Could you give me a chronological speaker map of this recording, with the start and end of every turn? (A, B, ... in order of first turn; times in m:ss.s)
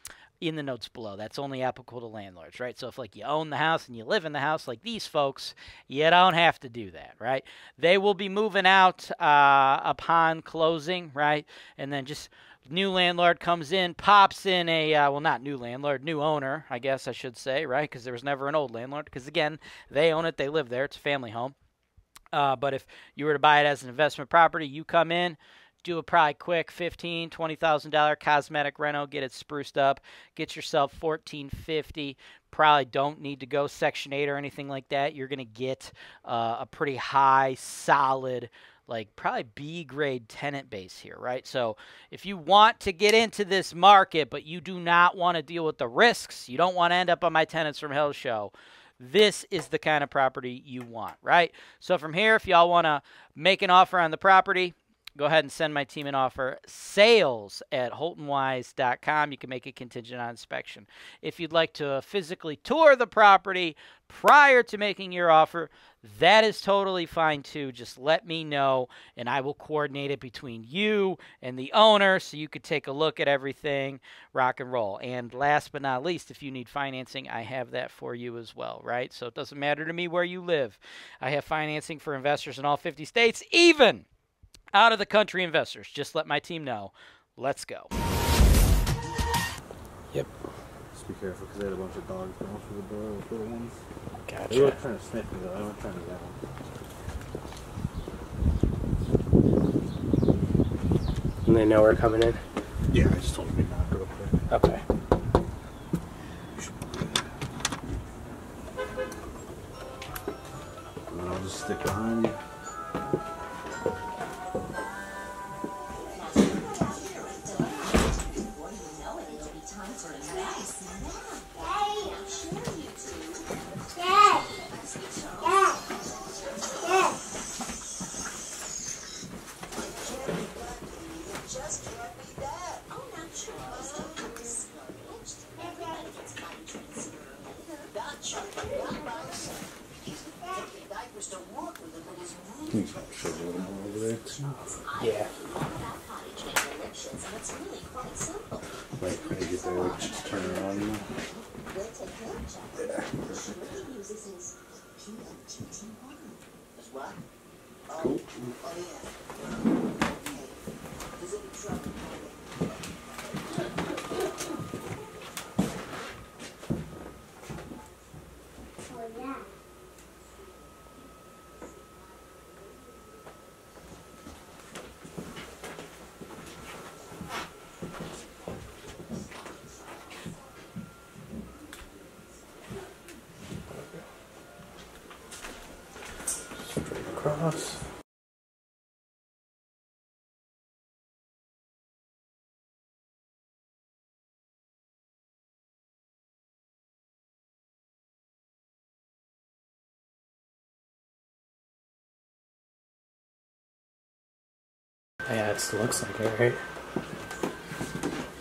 0:00.4-0:21.5 A
0:22.3-1:24.0 A
1:24.7-1:27.9 A
1:30.9-1:33.7 B
1:34.3-1:34.8 C
1:34.5-1:36.4 B
1:41.4-1:42.4 C
1:42.9-1:44.4 B
1:44.5-1:44.8 C
1:46.6-1:47.2 B
1:51.1-1:52.4 B
2:22.7-2:24.6 B
2:25.0-2:25.3 C
2:29.0-2:31.1 B
2:32.8-2:33.7 B
2:37.9-2:38.5 B
3:06.9-3:07.8 C
3:25.3-3:26.6 C